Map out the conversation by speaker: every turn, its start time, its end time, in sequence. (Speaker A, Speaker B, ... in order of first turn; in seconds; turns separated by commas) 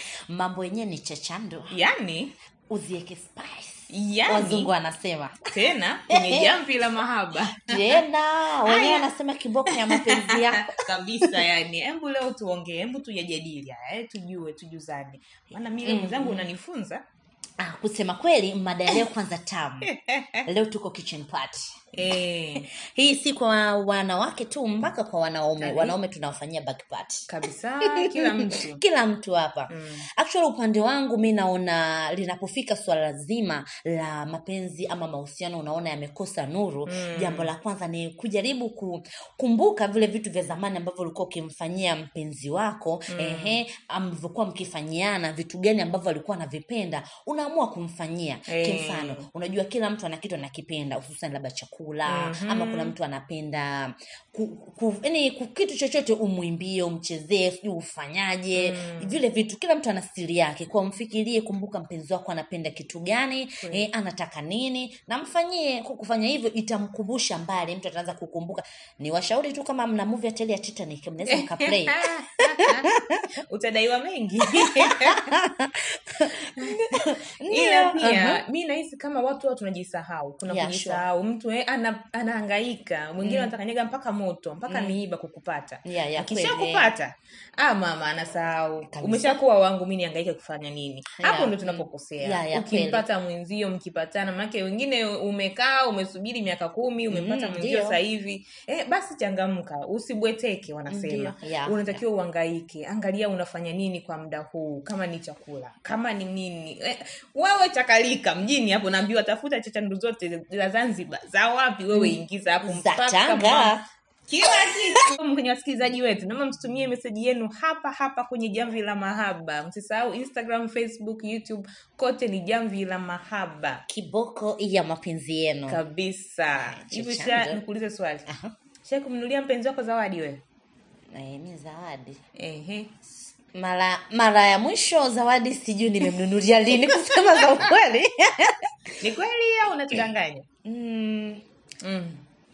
Speaker A: 0.3-1.7, Speaker B: 1.7-2.3, Speaker A: 2.7-5.5, Speaker B: 3.9-4.7, Speaker B: 5.5-8.0, Speaker A: 6.1-6.5, Speaker A: 7.7-11.4, Speaker B: 8.7-9.1, Speaker B: 9.7-17.0, Speaker A: 15.8-16.5, Speaker A: 17.6-19.9, Speaker B: 19.8-20.4, Speaker A: 20.4-21.7, Speaker B: 21.9-22.7, Speaker A: 22.8-27.3, Speaker B: 25.6-25.9, Speaker B: 27.3-28.8, Speaker A: 28.0-73.2, Speaker B: 29.7-30.0, Speaker B: 36.9-37.5, Speaker B: 43.1-43.6, Speaker B: 48.5-49.2, Speaker B: 52.0-52.9, Speaker B: 58.5-59.2, Speaker B: 71.3-72.9, Speaker B: 73.5-75.3, Speaker A: 74.8-78.4, Speaker B: 76.6-113.7, Speaker A: 80.5-81.0, Speaker A: 83.2-83.5, Speaker A: 84.7-85.0, Speaker A: 85.8-86.9, Speaker A: 88.9-89.3, Speaker A: 91.2-93.0, Speaker A: 97.1-98.0, Speaker A: 100.9-102.0, Speaker A: 111.9-113.8, Speaker B: 114.3-123.8, Speaker A: 123.9-125.8, Speaker B: 125.7-128.2, Speaker A: 126.7-127.6, Speaker A: 128.3-128.5, Speaker B: 128.8-130.4, Speaker A: 131.1-132.2, Speaker B: 132.3-132.9, Speaker A: 133.5-138.7, Speaker B: 139.0-140.4, Speaker A: 140.6-141.4, Speaker B: 141.8-142.2